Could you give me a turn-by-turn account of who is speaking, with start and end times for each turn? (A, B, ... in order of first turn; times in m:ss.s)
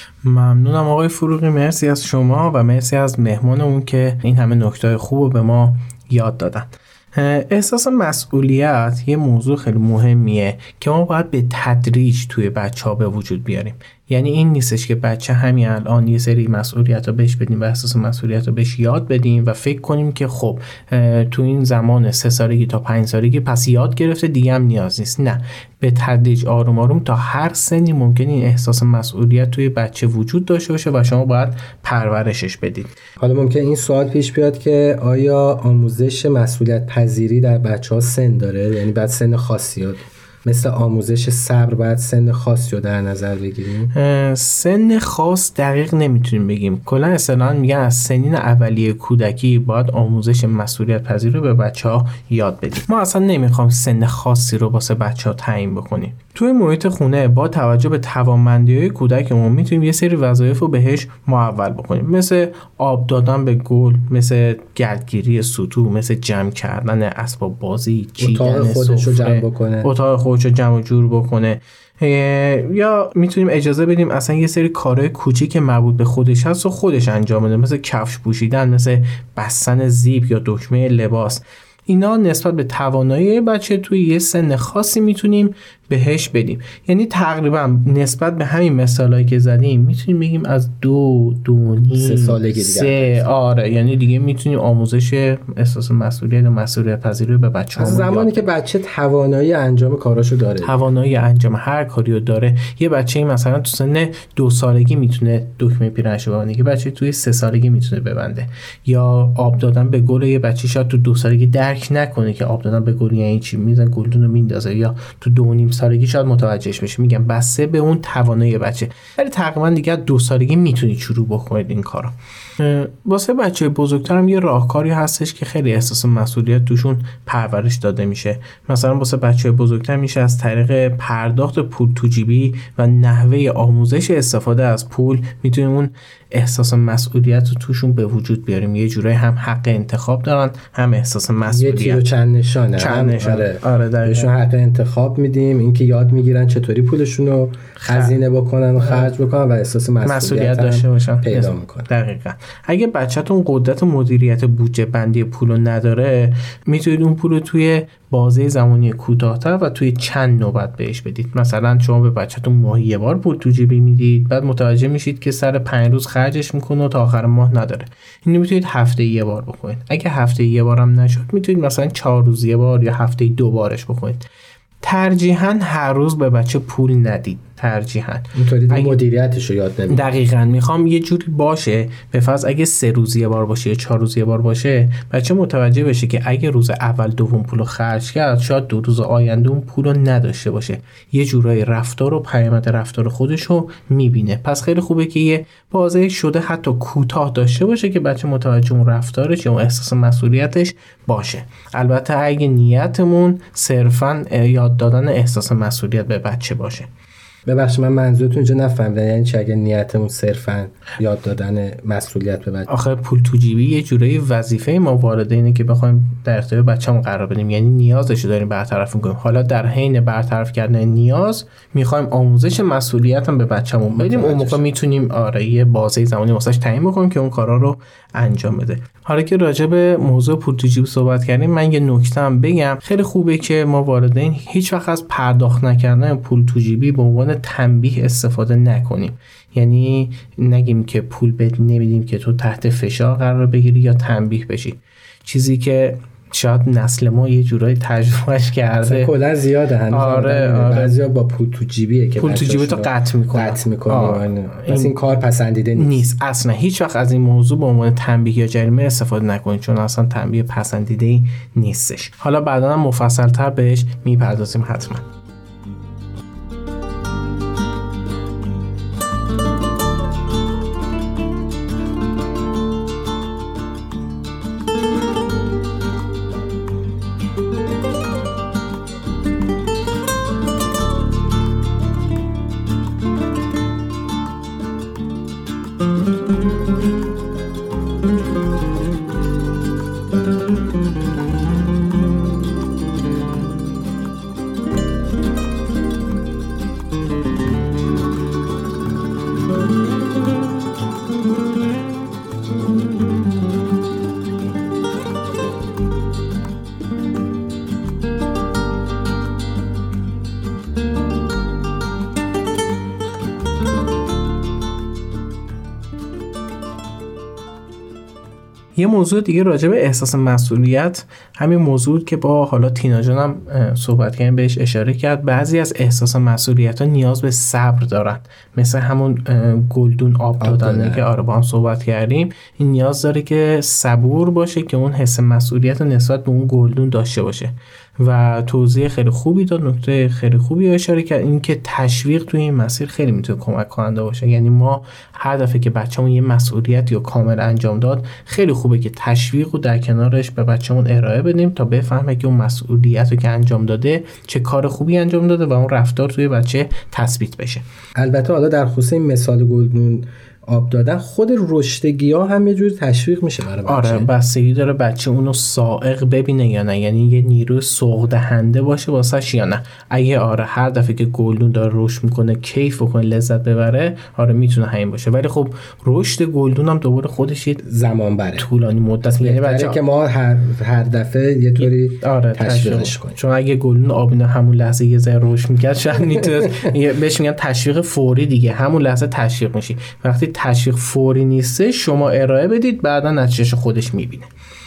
0:00.2-0:32.9 A
0:33.2-0:43.9 B
0:43.9-1:38.4 A
1:08.2-1:09.9 B
1:31.9-1:33.2 B
1:37.8-1:40.7 B
1:40.6-2:22.0 A
2:21.4-2:31.9 B
2:22.8-2:24.3 A
2:27.8-2:28.2 A
2:28.8-2:29.1 A
2:30.0-2:54.3 A
2:54.8-2:59.0 A
2:58.3-3:00.0 B
2:59.9-3:26.9 A
3:27.4-3:32.7 B
3:32.7-4:09.1 A
3:43.9-3:44.6 B
4:08.8-4:16.0 B
4:09.9-4:10.9 A
4:12.2-4:15.0 A
4:15.7-4:25.0 A
5:18.8-5:57.6 A
5:30.4-5:31.0 B
5:58.0-6:04.1 B
6:03.6-6:17.6 A
6:17.6-6:18.5 B
6:18.4-6:19.8 A
6:19.0-6:23.2 B
6:21.6-6:34.3 A